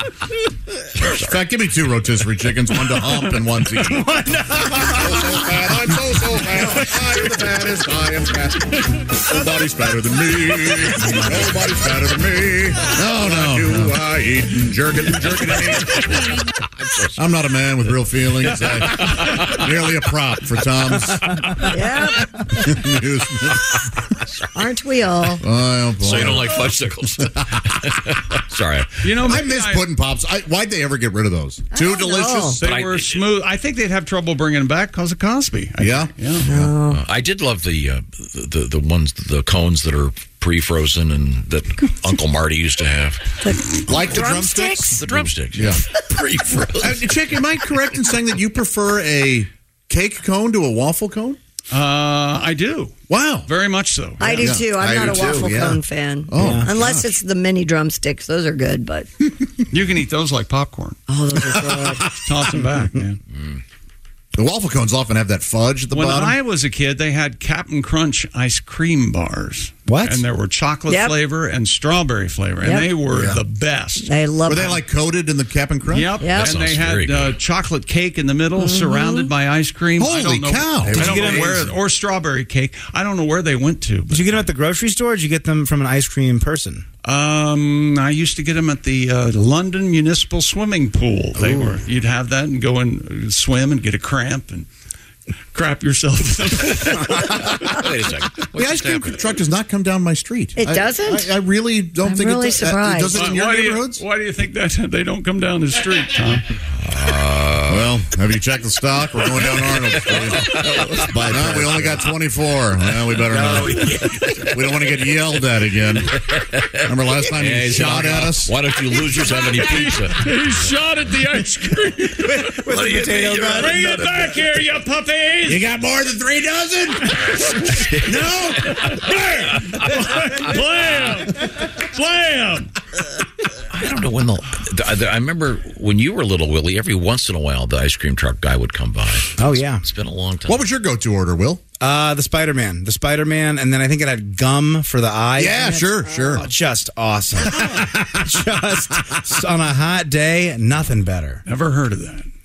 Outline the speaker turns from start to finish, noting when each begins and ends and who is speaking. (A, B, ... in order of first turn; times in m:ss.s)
0:00.9-0:01.4 A
0:01.2-0:16.1 B
0:03.0-0:04.4 C
0:15.6-0:17.2 A
0:17.2-0:21.7 B
0:18.5-0:19.6 A
0:21.7-0:22.4 D
0:22.6-0:23.8 B
0:23.7-0:24.3 A
0:24.5-0:25.4 D
0:25.4-0:26.8 B
0:26.0-0:29.1 A
0:29.0-0:29.9 C
0:29.2-0:32.6 B
0:31.7-0:32.6 D
0:32.6-0:33.2 A
0:32.6-0:36.5 C
0:35.8-0:36.8 B
0:36.4-0:37.0 D
0:36.9-0:43.4 A
0:43.4-0:45.0 D
0:43.9-0:45.9 B
0:44.9-0:47.0 A
0:46.8-0:51.4 B
0:51.7-0:54.4 C
0:53.1-0:53.5 B
0:54.2-0:59.1 D
0:54.3-0:54.8 B
0:55.4-0:55.8 E
0:56.3-0:57.2 B
0:56.4-0:56.7 E
0:59.7-1:01.0 C
1:01.1-1:02.1 D
1:01.5-1:01.8 B
1:02.2-1:03.2 C
1:04.4-1:06.4 B
1:05.9-1:14.1 C
1:09.9-1:10.2 E
1:10.9-1:11.2 D
1:12.6-1:13.0 D
1:14.0-1:14.8 D
1:14.4-1:16.2 B
1:15.9-1:24.5 C
1:16.2-1:16.6 D
1:16.3-1:17.4 A
1:18.6-1:19.3 D
1:20.0-1:21.1 B
1:20.9-1:21.7 E
1:24.1-1:26.8 E
1:27.0-1:34.7 C
1:35.5-1:37.4 C
1:37.0-1:39.4 A
1:38.5-1:44.0 B
1:40.6-1:41.3 D
1:42.0-1:43.2 D
1:43.1-1:46.5 C
1:46.8-1:47.9 A
1:47.7-1:56.2 B
1:49.3-1:51.4 A
1:50.7-1:51.8 E
1:53.3-1:54.2 E
1:56.2-2:00.4 A
1:56.8-1:58.6 B
1:59.6-2:05.7 C
2:02.2-2:04.1 E
2:03.2-2:03.7 A
2:05.5-2:07.5 B
2:08.1-2:08.6 B
2:08.6-2:12.7 C
2:09.7-2:09.9 A
2:10.7-2:11.0 A
2:13.7-2:20.7 A
2:19.4-2:19.8 E
2:20.5-2:21.6 B
2:21.8-2:31.4 E
2:25.4-2:26.5 B
2:27.5-2:27.8 B
2:31.5-2:32.3 C